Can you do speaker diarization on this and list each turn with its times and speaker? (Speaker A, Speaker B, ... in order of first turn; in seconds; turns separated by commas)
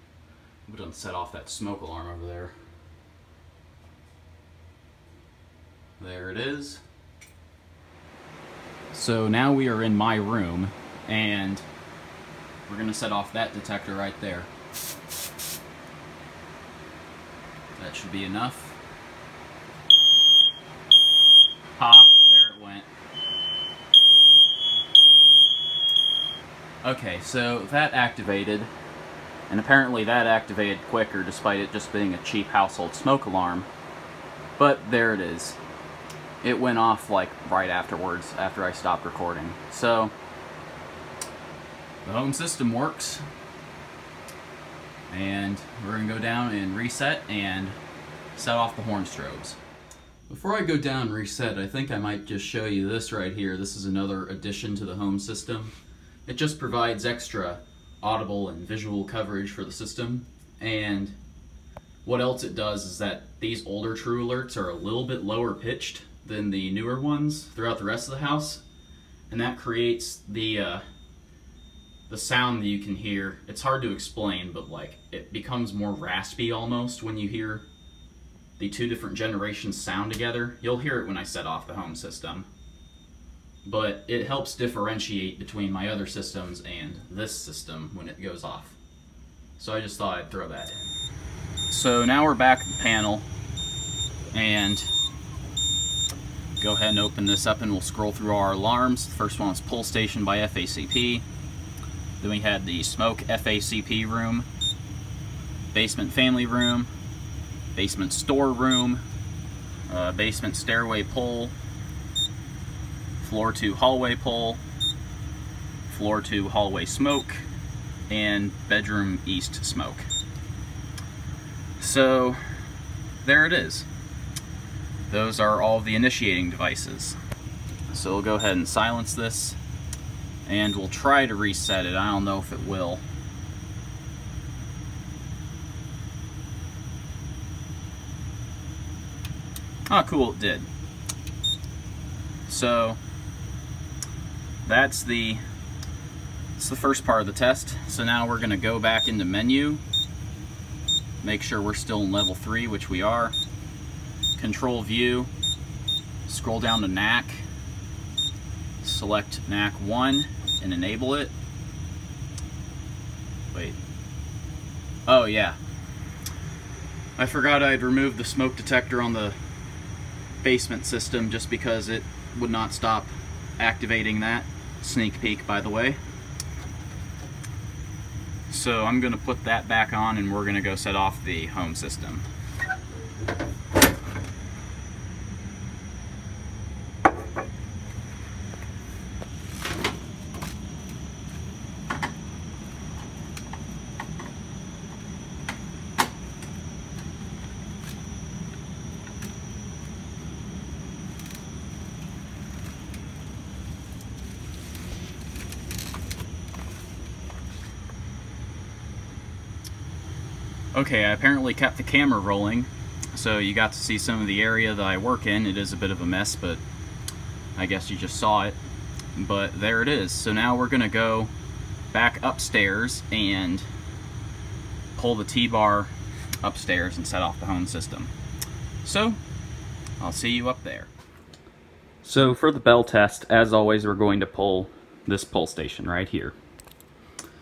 Speaker A: 0.7-2.5, Speaker A: 6.0-6.8, Speaker A: 8.9-11.6, Speaker A: 12.7-14.5, Speaker A: 17.8-18.8, Speaker A: 21.8-22.9, Speaker A: 26.8-28.7, Speaker A: 29.5-33.7, Speaker A: 34.6-35.6, Speaker A: 36.4-40.1, Speaker A: 42.0-43.2, Speaker A: 45.1-47.8, Speaker A: 48.3-49.6, Speaker A: 50.3-55.7, Speaker A: 56.2-61.2, Speaker A: 62.0-68.6, Speaker A: 69.3-70.8, Speaker A: 72.1-77.7, Speaker A: 78.6-82.5, Speaker A: 83.6-88.8, Speaker A: 89.6-90.9, Speaker A: 91.7-93.3, Speaker A: 94.3-94.9, Speaker A: 96.6-101.2, Speaker A: 102.2-104.5, Speaker A: 105.7-106.9, Speaker A: 107.7-109.0, Speaker A: 109.9-111.5, Speaker A: 113.2-114.6, Speaker A: 115.9-117.5, Speaker A: 118.1-120.1, Speaker A: 121.8-122.4, Speaker A: 123.2-123.9, Speaker A: 125.1-127.2, Speaker A: 127.9-129.6, Speaker A: 130.4-133.0, Speaker A: 139.9-140.7, Speaker A: 142.5-143.0, Speaker A: 144.6-145.4, Speaker A: 146.6-149.8, Speaker A: 151.2-153.4, Speaker A: 154.3-155.3, Speaker A: 156.3-157.5, Speaker A: 158.8-161.3, Speaker A: 163.5-163.8, Speaker A: 165.1-165.6, Speaker A: 167.2-169.4, Speaker A: 170.4-176.0, Speaker A: 178.5-182.2, Speaker A: 210.7-216.6, Speaker A: 217.6-218.6, Speaker A: 219.1-221.3, Speaker A: 221.9-223.7, Speaker A: 224.9-228.1, Speaker A: 228.8-229.2, Speaker A: 230.0-230.9, Speaker A: 232.0-236.3